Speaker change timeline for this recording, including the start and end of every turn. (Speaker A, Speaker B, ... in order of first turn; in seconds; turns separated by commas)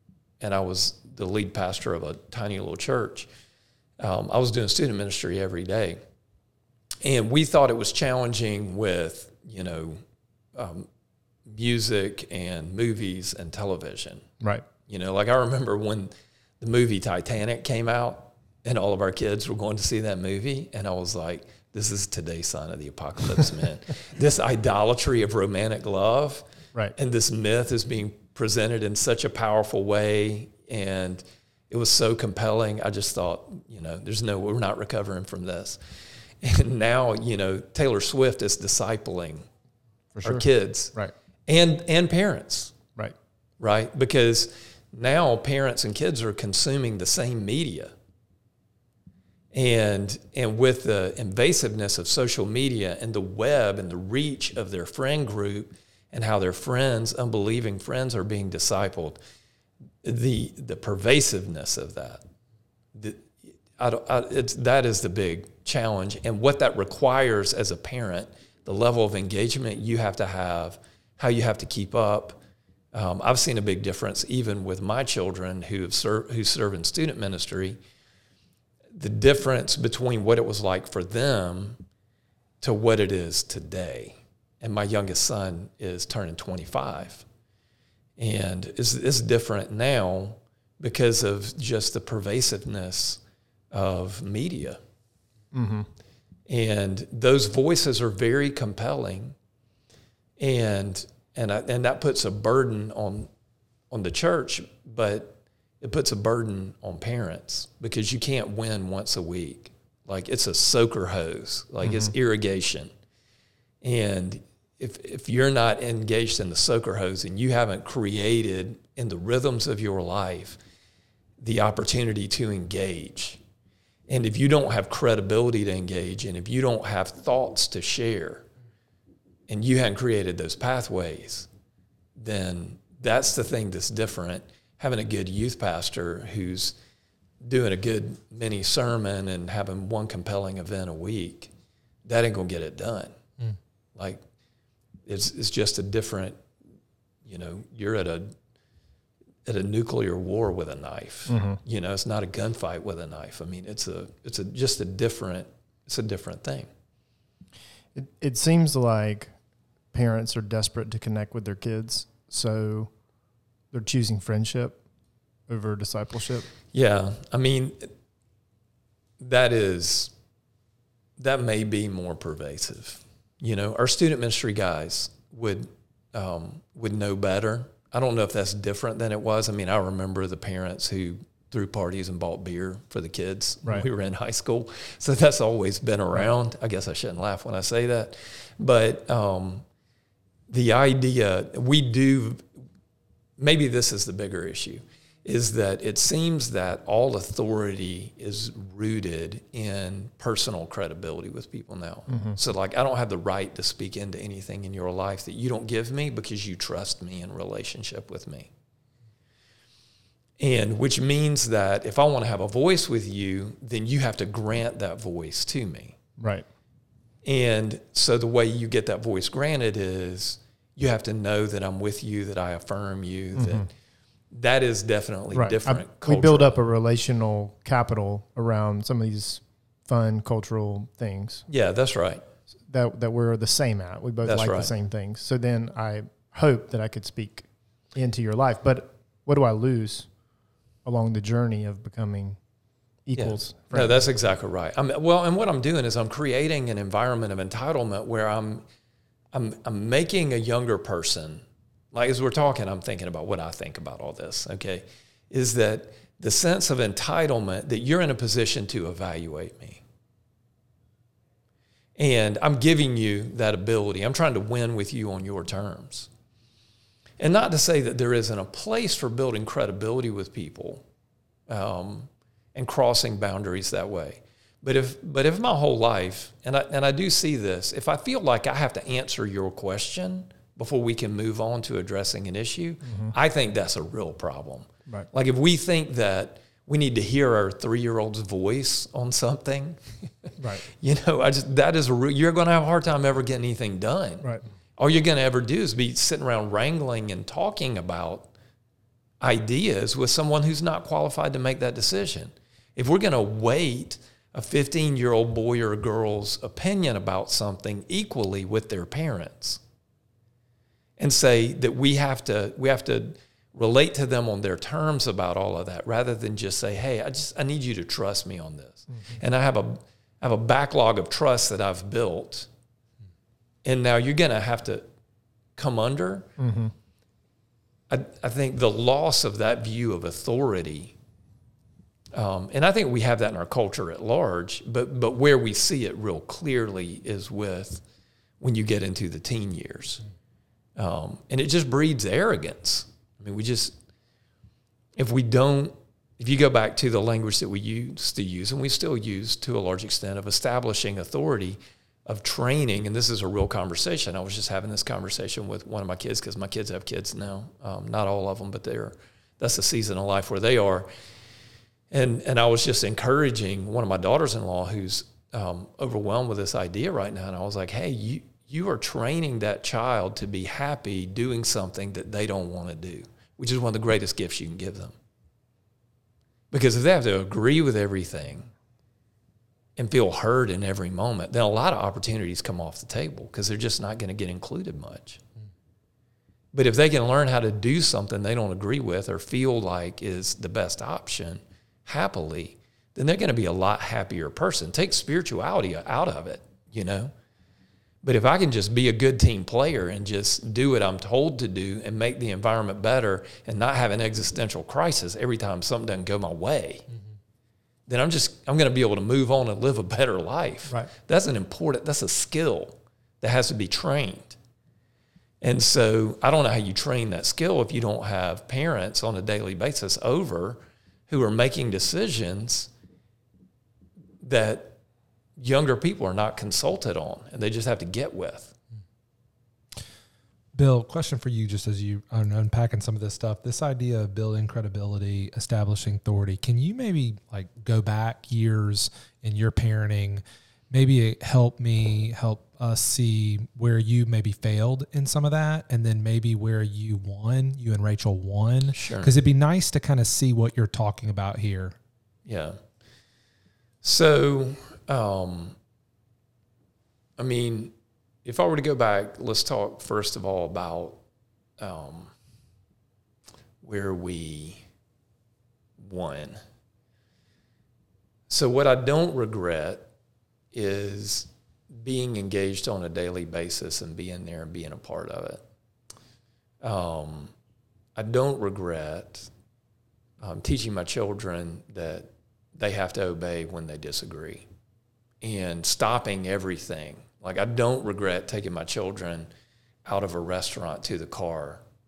Speaker A: 0.4-3.3, Speaker A: 4.0-6.0, Speaker A: 7.0-10.0, Speaker A: 10.5-10.9, Speaker A: 11.5-14.2, Speaker B: 14.4-14.7, Speaker A: 14.9-26.4, Speaker A: 27.0-35.8, Speaker A: 36.4-39.5, Speaker B: 40.1-41.1, Speaker A: 40.2-41.0, Speaker A: 41.5-42.8, Speaker A: 43.6-47.9, Speaker A: 49.5-59.2, Speaker A: 60.0-62.2, Speaker A: 63.0-72.4, Speaker A: 72.9-77.8, Speaker A: 78.9-81.8, Speaker A: 82.6-87.2, Speaker A: 88.2-93.2, Speaker A: 93.7-94.8, Speaker B: 95.5-95.9, Speaker A: 96.5-99.3, Speaker A: 100.4-103.3, Speaker A: 103.9-112.9, Speaker B: 111.8-112.1, Speaker A: 113.8-120.6, Speaker A: 121.4-123.4, Speaker A: 124.1-128.5, Speaker A: 129.5-131.5, Speaker A: 132.2-136.8, Speaker A: 137.4-141.5, Speaker A: 142.1-143.1, Speaker A: 144.0-144.2, Speaker A: 145.1-146.4, Speaker A: 147.2-148.3, Speaker A: 149.4-156.7, Speaker B: 151.3-151.6, Speaker B: 157.9-159.3, Speaker B: 159.9-162.9, Speaker B: 163.7-164.8, Speaker B: 165.5-166.5, Speaker A: 166.7-167.9, Speaker A: 169.2-170.1, Speaker A: 171.2-189.6, Speaker A: 190.5-192.4, Speaker A: 193.4-208.5, Speaker B: 202.1-202.4, Speaker A: 210.4-216.0, Speaker B: 216.2-216.5, Speaker A: 217.2-223.7, Speaker B: 223.3-223.7, Speaker A: 224.3-226.6, Speaker B: 225.3-231.4, Speaker A: 231.5-232.2, Speaker B: 232.7-240.1, Speaker A: 234.2-234.7, Speaker B: 240.8-242.4, Speaker B: 243.1-244.0, Speaker A: 243.2-248.6, Speaker A: 249.3-259.8, Speaker A: 262.0-266.1, Speaker A: 267.2-270.8, Speaker A: 271.5-298.3, Speaker B: 282.8-283.1, Speaker B: 290.4-290.6, Speaker A: 299.2-309.6, Speaker A: 311.0-322.5, Speaker A: 323.6-324.9, Speaker A: 325.6-326.3, Speaker B: 326.4-326.7, Speaker A: 327.9-330.9, Speaker A: 332.1-337.8, Speaker A: 338.4-340.0, Speaker A: 340.8-343.8, Speaker A: 345.0-360.9, Speaker A: 361.9-374.9, Speaker A: 376.5-378.5, Speaker A: 379.8-385.2, Speaker A: 386.5-397.1, Speaker A: 398.0-406.9, Speaker A: 407.9-414.4, Speaker A: 415.4-422.7, Speaker A: 424.2-424.8, Speaker A: 425.4-428.5, Speaker C: 430.5-451.8, Speaker A: 448.7-449.1, Speaker A: 452.2-452.6, Speaker A: 453.8-455.6, Speaker A: 457.2-457.7, Speaker A: 458.2-461.0, Speaker A: 461.6-462.1, Speaker A: 463.6-464.6, Speaker A: 465.8-466.4, Speaker A: 468.3-469.9, Speaker A: 470.5-475.4, Speaker A: 476.6-477.3, Speaker A: 478.0-479.3, Speaker A: 480.2-484.5, Speaker A: 485.2-489.3, Speaker A: 489.9-491.6